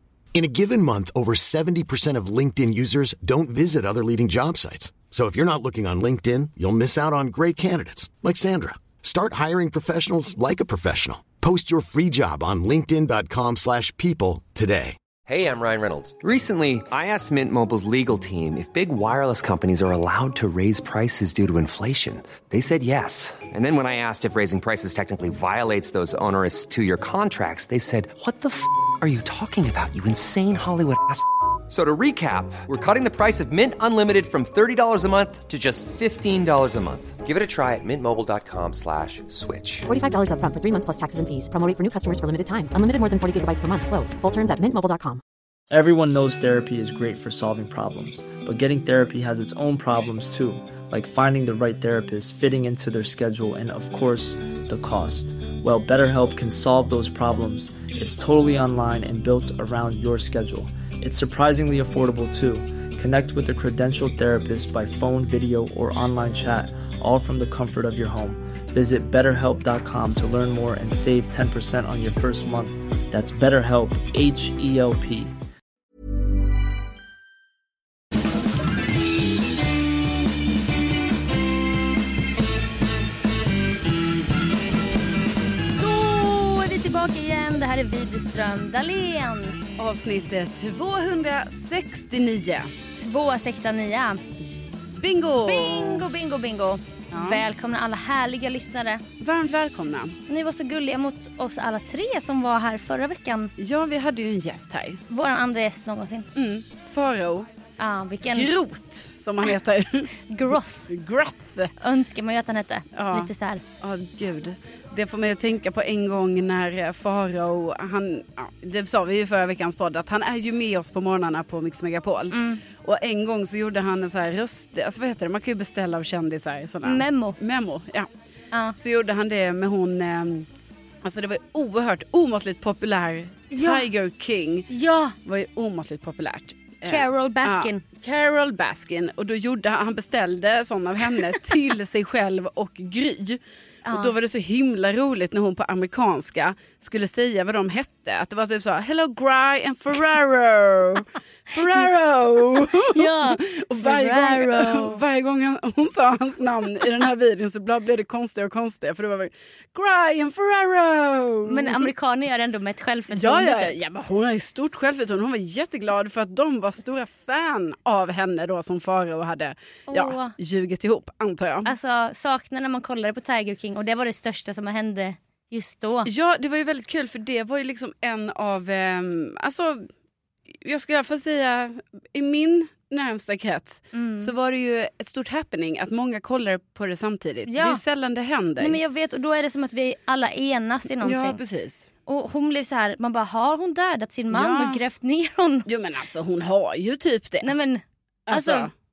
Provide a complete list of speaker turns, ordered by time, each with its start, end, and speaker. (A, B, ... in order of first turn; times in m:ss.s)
0:00.3-0:15.0 A
0:15.2-0:39.9 B
0:39.9-0:45.2 C
0:45.7-1:15.3 D
1:25.7-1:29.6 E
1:29.8-1:32.7 F
1:33.0-1:34.2 E
1:34.9-1:36.1 F
1:35.4-1:39.0 E
1:37.1-1:37.4 F
1:39.2-1:40.2 F
1:40.3-1:43.5 E
1:43.6-1:45.0 F
1:45.1-1:46.3 E
1:46.4-1:47.5 F
1:47.8-1:48.5 E
1:48.3-1:50.1 F
1:50.3-1:50.9 E
1:50.9-1:51.7 F
1:51.8-1:53.6 E
1:52.9-1:53.3 F
1:53.8-2:08.1 F
2:02.3-2:02.6 E
2:06.8-2:07.4 E
2:08.8-2:10.5 F
2:11.0-2:14.7 F
2:13.5-2:13.9 E
2:14.7-2:15.2 E
2:15.2-2:41.9 F
2:16.8-2:17.8 E
2:23.8-2:24.1 E
2:32.7-2:35.0 E
2:41.5-2:43.7 E
2:43.1-2:51.7 F
2:49.9-2:50.3 E
2:51.6-2:56.1 E
2:56.0-2:59.8 F
3:00.6-3:08.8 F
3:03.9-3:04.3 E
3:07.5-3:07.8 E
3:08.6-3:11.4 E
3:11.0-3:11.9 F
3:12.0-3:15.7 E
3:14.3-3:14.8 F
3:15.7-3:17.5 F
3:17.4-3:18.7 E
3:18.3-3:18.7 F